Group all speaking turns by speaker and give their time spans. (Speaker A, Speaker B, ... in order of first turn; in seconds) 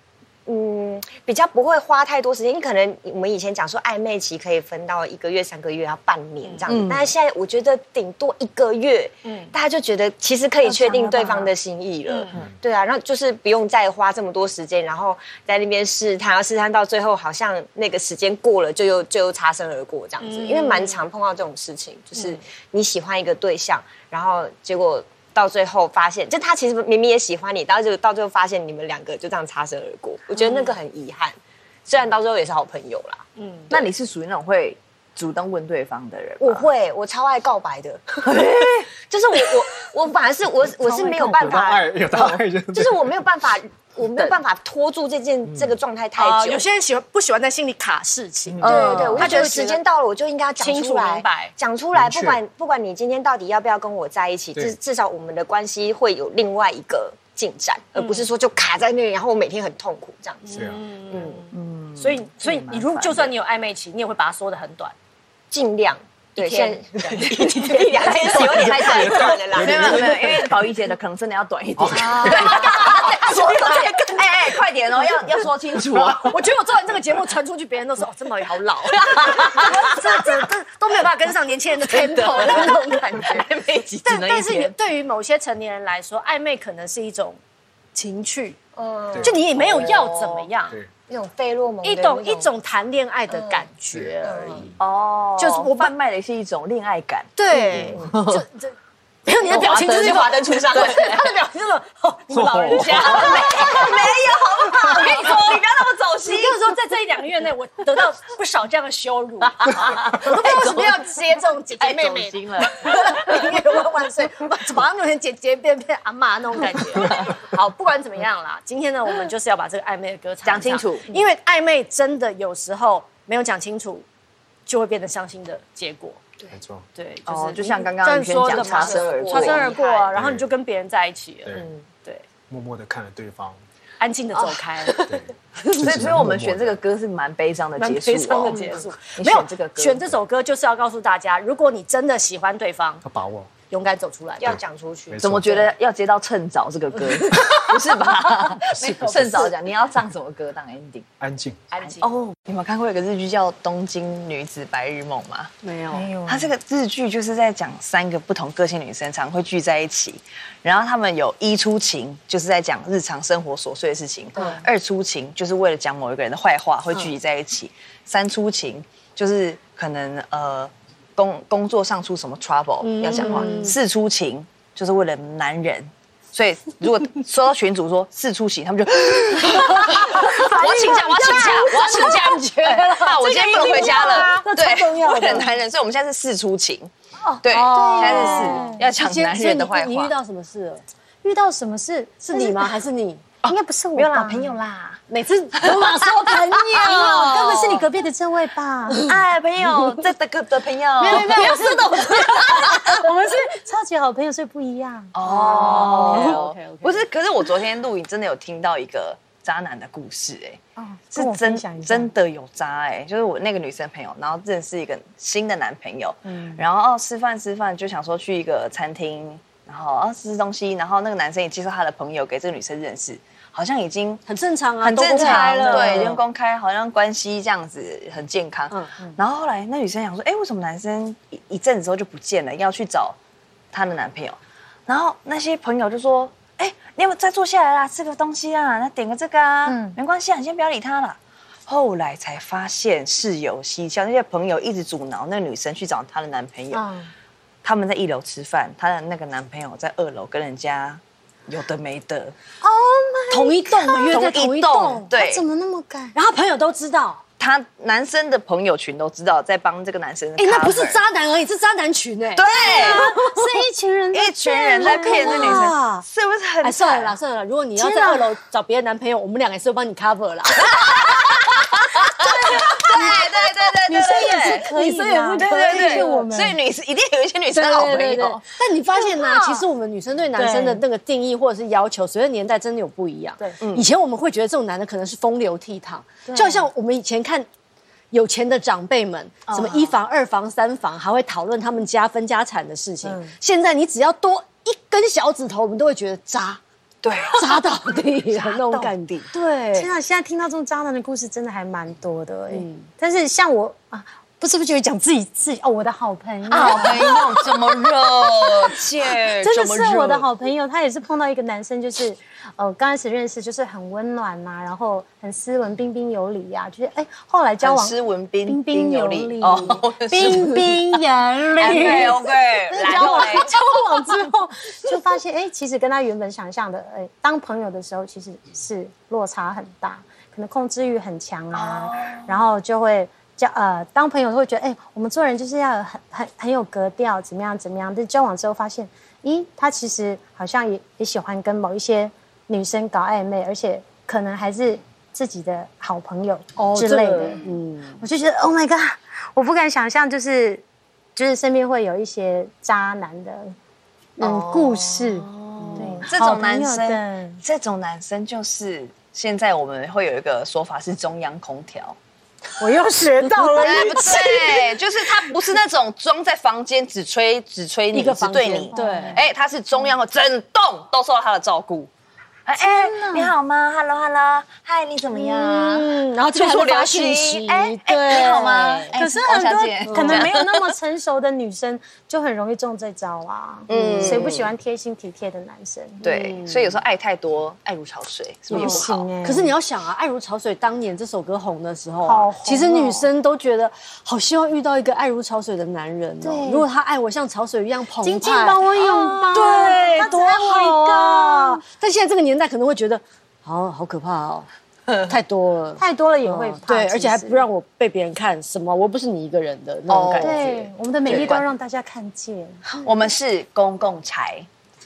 Speaker A: 0.5-33.2, 36.4-46.6, 48.6-61.4, 65.5-70.4, 71.9-74.0, 88.8-89.4, 91.1-92.5, 93.3-93.7, 94.2-94.7, 99.5-101.2, 103.5-103.8, 128.4-130.2, 131.6-131.8, 134.4-135.1, 138.4-138.8, 144.4-145.2, 155.9-156.5, 164.3-164.6
Speaker B: 6.4-6.7, 9.2-9.5, 12.1-12.3, 20.2-21.0, 22.1-22.4, 30.4-30.7, 33.4-33.8, 46.2-49.8, 50.6-51.5, 58.0-58.3, 60.4-64.9, 66.4-68.6, 72.1-74.0, 76.2-83.5, 84.0-87.4, 87.9-88.6, 89.2-90.8, 91.8-94.8, 95.4-95.9, 97.4-104.2, 104.7-105.5, 106.2-124.0, 124.7-126.2, 126.9-132.2, 134.0-135.1, 137.8-143.0, 143.7-144.6, 147.0-149.5, 151.7-152.1, 155.6-156.1, 164.3-164.6, 172.8-173.8, 179.4-185.5, 187.5-190.8, 192.2-193.2, 195.1-197.8, 201.0-203.5, 205.2-207.1, 224.3-226.2, 253.3-255.1, 256.1-257.2, 260.4-263.6, 264.7-266.0, 266.6-273.1, 274.5-276.3, 277.5-287.5, 288.1-296.6, 297.2-299.9, 302.5-302.9, 321.6-322.0, 346.6-348.0, 355.6-356.1, 363.2-364.3, 367.9-369.2, 375.1-378.9, 379.9-380.3, 383.7-384.4, 386.0-386.8, 388.5-404.5, 405.0-411.4
Speaker C: 6.7-7.1, 10.6-11.5, 33.7-36.7, 38.2-38.9, 48.6-49.4, 61.1-63.3, 66.4-76.3, 79.0-79.8, 81.8-84.7, 89.5-90.5, 94.8-98.3, 99.5-101.3, 102.7-106.6, 109.6-111.1, 111.7-113.4, 120.4-121.0, 127.3-129.8, 135.7-140.2, 145.2-151.1, 151.8-155.5, 156.2-186.9, 187.4-190.1, 193.4-195.0, 195.6-196.0, 196.6-197.9, 199.0-202.7, 205.1-210.6, 211.1-224.2, 224.8-233.2, 233.7-246.8, 247.6-252.3, 254.1-255.4, 257.4-261.0, 262.3-263.1, 264.1-267.2, 270.7-274.7, 275.4-278.4, 279.0-279.6, 283.6-283.9, 289.5-289.9, 297.0-299.3, 306.5-310.3, 317.6-321.0, 321.6-323.5, 331.5-332.4, 354.2-362.0, 363.5-371.9, 372.4-380.7, 383.7-384.5, 386.0-389.1, 409.9-411.4, 412.8-414.5
Speaker D: 40.8-43.2, 45.4-45.8, 48.5-49.4, 51.9-52.4, 60.5-60.8, 68.4-70.3, 71.8-72.7, 75.9-76.3, 89.1-89.4, 97.7-98.0, 102.3-103.8, 126.5-126.8, 130.1-130.4, 132.5-133.6, 135.0-136.8, 143.0-143.5, 144.4-145.7, 148.7-149.5, 151.2-151.6
Speaker E: 173.2-173.7, 183.2-184.5, 187.7-188.8, 191.2-192.6, 193.5-194.6, 196.9-199.1, 201.1-201.6, 202.2-206.4, 210.8-212.1, 216.2-216.6, 225.2-226.2, 239.7-239.9, 246.7-247.1, 252.6-254.3, 255.1-256.1, 262.6-265.7, 267.8-268.3, 272.2-273.2, 273.9-276.6, 280.3-280.8, 286.3-286.7, 293.0-293.3, 299.7-347.4, 348.0-350.6, 351.1-353.5, 354.2-357.4, 362.6-364.8, 368.7-369.2, 372.6-373.3, 378.9-386.0, 388.5-389.5, 392.0-393.1, 396.2-396.7, 398.0-401.6, 405.8-407.4, 410.2-412.7